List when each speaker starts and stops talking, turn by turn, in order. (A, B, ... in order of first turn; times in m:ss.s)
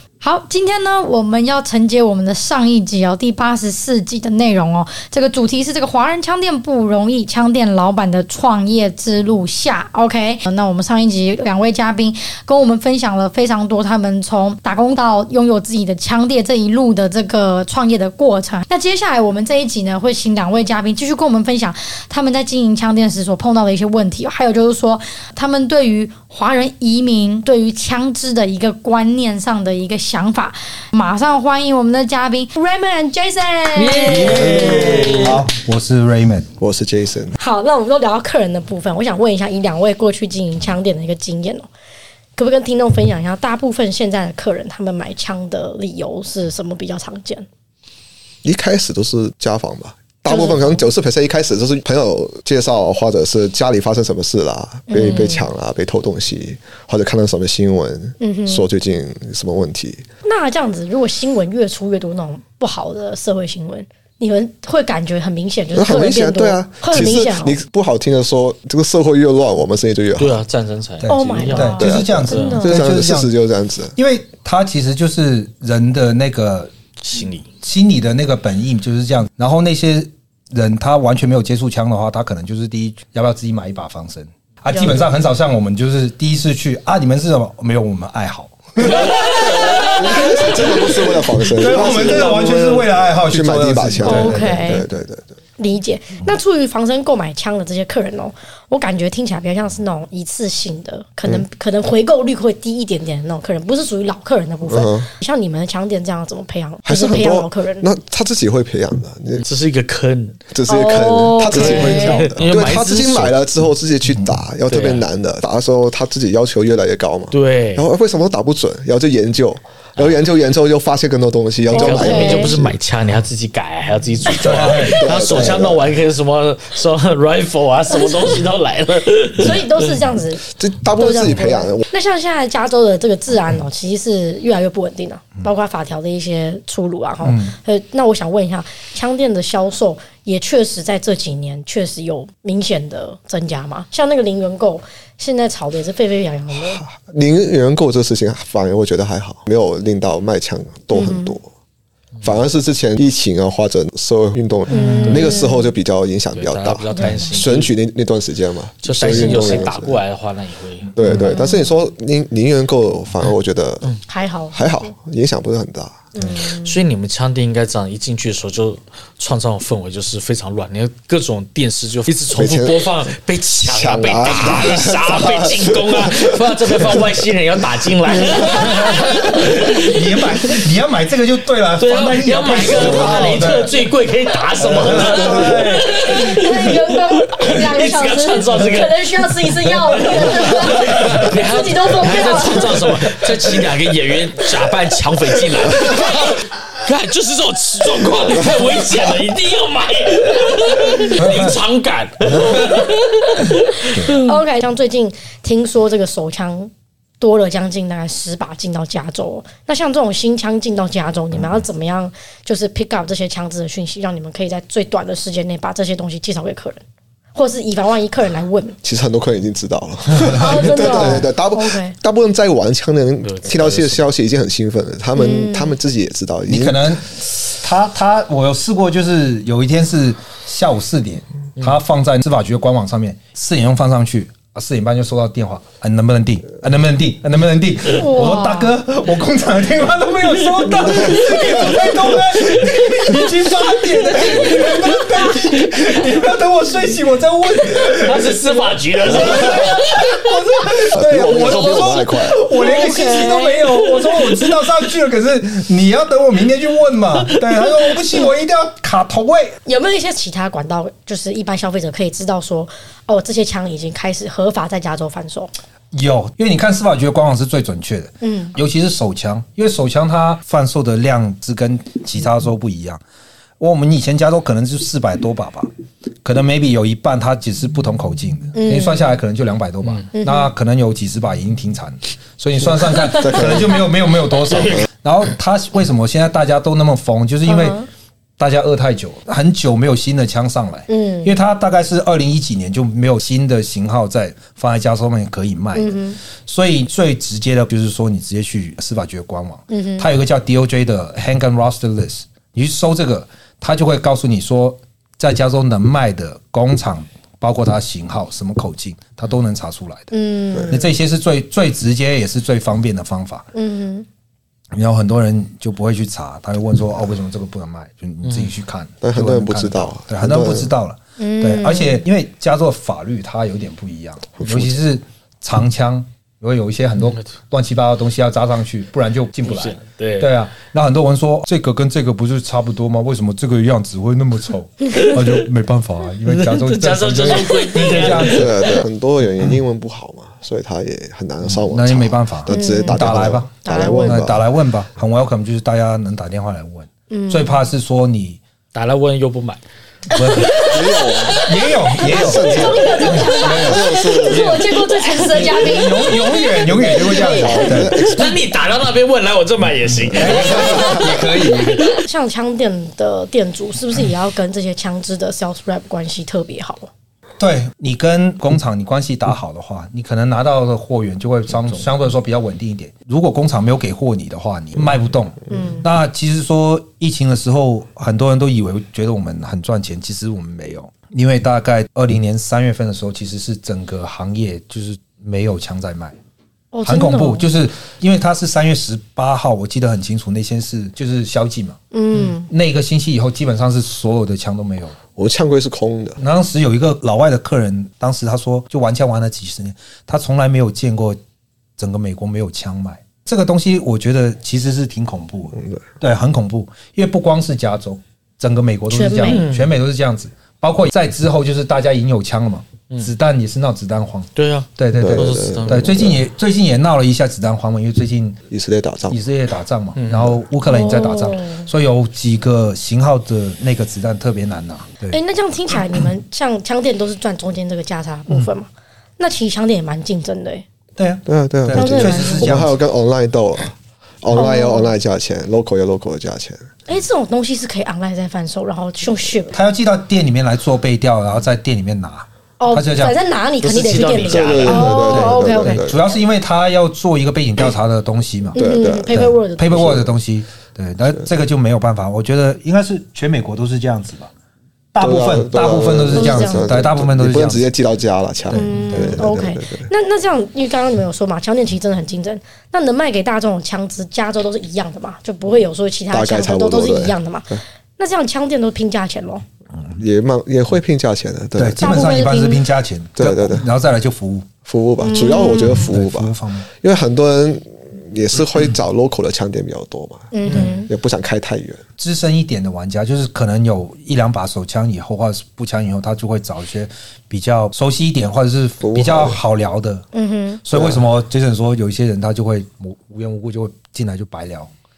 0:00.2-0:32.5 A
0:32.5-0:35.3 B
0:33.8-0:35.4 C
0:34.0-0:36.5 D
0:34.4-0:35.3 E
0:36.6-0:37.4 E
0:37.4-0:41.7 B
0:42.4-0:47.4 B
0:48.4-1:00.1 E
0:50.3-0:50.8 B
0:54.9-0:55.5 B
0:58.2-0:58.6 B
1:00.2-1:07.6 B
1:05.7-1:10.4 E
1:10.2-1:12.6 C
1:11.0-1:13.3 D
1:11.1-1:12.9 B
1:11.8-1:14.0 E
1:14.0-1:16.7 D
1:17.0-1:17.5 C
1:17.6-1:31.0 D
1:24.7-1:25.1 B
1:29.1-1:35.3 E
1:30.2-1:30.5 B
1:31.5-1:34.8 D
1:34.0-1:34.8 B
1:35.6-1:47.9 B
1:44.6-1:45.1 E
1:46.8-1:49.5 E
1:49.4-1:50.4 C
1:50.5-2:02.7 E
1:50.7-1:52.3 B
1:51.5-1:53.4 C
1:54.7-1:55.1 C
1:57.3-1:57.9 C
2:01.7-2:09.7 C
2:01.7-2:02.5 B
2:04.3-2:05.0 D
2:04.4-2:06.0 E
2:04.6-2:05.0 B
2:09.4-2:26.8 B
2:10.6-2:11.8 E
2:17.2-2:17.5 D
2:26.6-2:31.5 E
2:30.9-2:31.4 B
2:32.2-2:40.0 E
2:34.7-2:35.7 B
2:34.8-2:35.4 C
2:36.3-2:37.7 C
2:36.9-2:37.4 B
2:38.8-2:41.2 C
2:39.0-2:39.7 B
2:41.0-2:43.9 E
2:41.1-2:41.7 B
2:44.1-2:44.9 B
2:44.5-2:46.1 E
2:46.2-2:46.8 B
2:46.6-3:00.3 C
2:52.3-2:52.9 E
2:53.6-2:56.4 E
2:58.1-2:58.8 E
2:58.4-3:03.8 D
3:01.8-3:09.1 C
3:02.7-3:03.3 E
3:04.6-3:06.7 D
3:04.9-3:05.8 E
3:05.9-3:13.0 B
3:09.6-3:10.1 C
3:10.7-3:24.4 C
3:21.2-3:21.6 D
3:22.4-3:22.8 D
3:24.0-3:36.8 B
3:37.3-3:38.8 B
3:38.8-3:46.9 E
3:40.2-3:41.3 D
3:40.3-3:42.0 B
3:43.2-3:44.0 C
3:45.2-3:45.8 B
3:46.5-4:08.3 D
3:58.0-3:58.7 B
4:00.6-4:02.5 C
4:00.7-4:01.4 E
4:08.0-4:09.9 C
4:09.1-4:19.6 D
4:10.9-4:12.4 E
4:12.5-4:14.2 B
4:19.6-4:25.5 B
4:25.9-4:33.0 D
4:28.2-4:28.6 B
4:33.6-4:35.7 D
4:36.2-4:47.8 D
4:38.5-4:39.2 B
4:40.1-4:40.5 B
4:42.6-4:43.8 E
4:44.5-4:44.9 C
4:47.4-4:47.9 B
4:48.4-5:10.1 D
4:50.9-4:51.3 B
4:55.7-4:56.2 B
4:59.7-5:00.1 B
5:10.1-5:10.9 B
5:10.7-5:13.4 D
5:13.5-5:14.1 B
5:14.8-5:38.5 D
5:18.2-5:18.5 C
5:19.0-5:20.7 E
5:21.2-5:22.0 B
5:24.4-5:24.8 E
5:29.4-5:30.4 C
5:36.2-5:38.8 C
5:38.1-5:44.4 E
5:41.4-5:48.4 D
5:42.5-5:44.3 B
5:47.1-5:47.6 B
5:48.7-5:49.6 C
5:50.1-5:50.6 D
5:50.2-5:57.8 B
5:50.4-5:50.7 C
5:50.7-5:54.6 E
5:51.4-5:54.7 D
5:54.3-5:55.7 C
5:55.3-5:58.1 D
5:56.6-5:58.3 E
5:57.9-6:02.0 C
6:00.1-6:01.9 D
6:00.3-6:01.1 E
6:00.4-6:01.2 B
6:01.8-6:06.9 B
6:07.4-6:26.2 D
6:15.5-6:15.9 B
6:26.7-6:27.5 B
6:26.8-6:35.0 D
6:31.9-6:32.5 B
6:35.2-6:36.2 E
6:36.2-6:41.2 D
6:41.8-6:58.4 D
6:45.5-6:45.8 E
6:48.9-6:49.5 B
6:49.2-6:49.8 C
6:54.4-6:56.1 C
6:54.9-6:56.2 E
6:58.5-6:59.2 E
6:59.1-7:05.2 D
7:00.0-7:00.4 C
7:00.7-7:01.7 B
7:05.1-7:10.6 B
7:11.0-7:12.8 D
7:11.3-7:16.7 E
7:11.7-7:12.6 B
7:14.3-7:14.9 B
7:16.9-7:19.6 B
7:19.5-7:23.2 D
7:22.6-7:25.9 B
7:23.6-7:24.9 C
7:24.3-7:26.0 E
7:24.7-7:34.3 D
7:28.5-7:30.1 E
7:28.6-7:30.0 B
7:34.9-7:37.7 D
7:35.0-7:39.9 E
7:36.1-7:36.9 B
7:38.5-7:39.1 D
7:38.5-7:49.4 B
7:46.1-7:47.6 E
7:50.0-7:51.9 E
7:51.6-7:54.5 D
7:51.8-7:52.7 B
7:53.2-7:53.7 E
7:54.7-8:01.8 E
7:55.0-7:56.0 B
7:55.5-7:56.7 D
8:00.3-8:00.9 B
8:02.0-8:10.1 D
8:08.8-8:09.4 E
8:10.1-8:10.6 B
8:10.6-8:14.7 D
8:10.7-8:11.1 E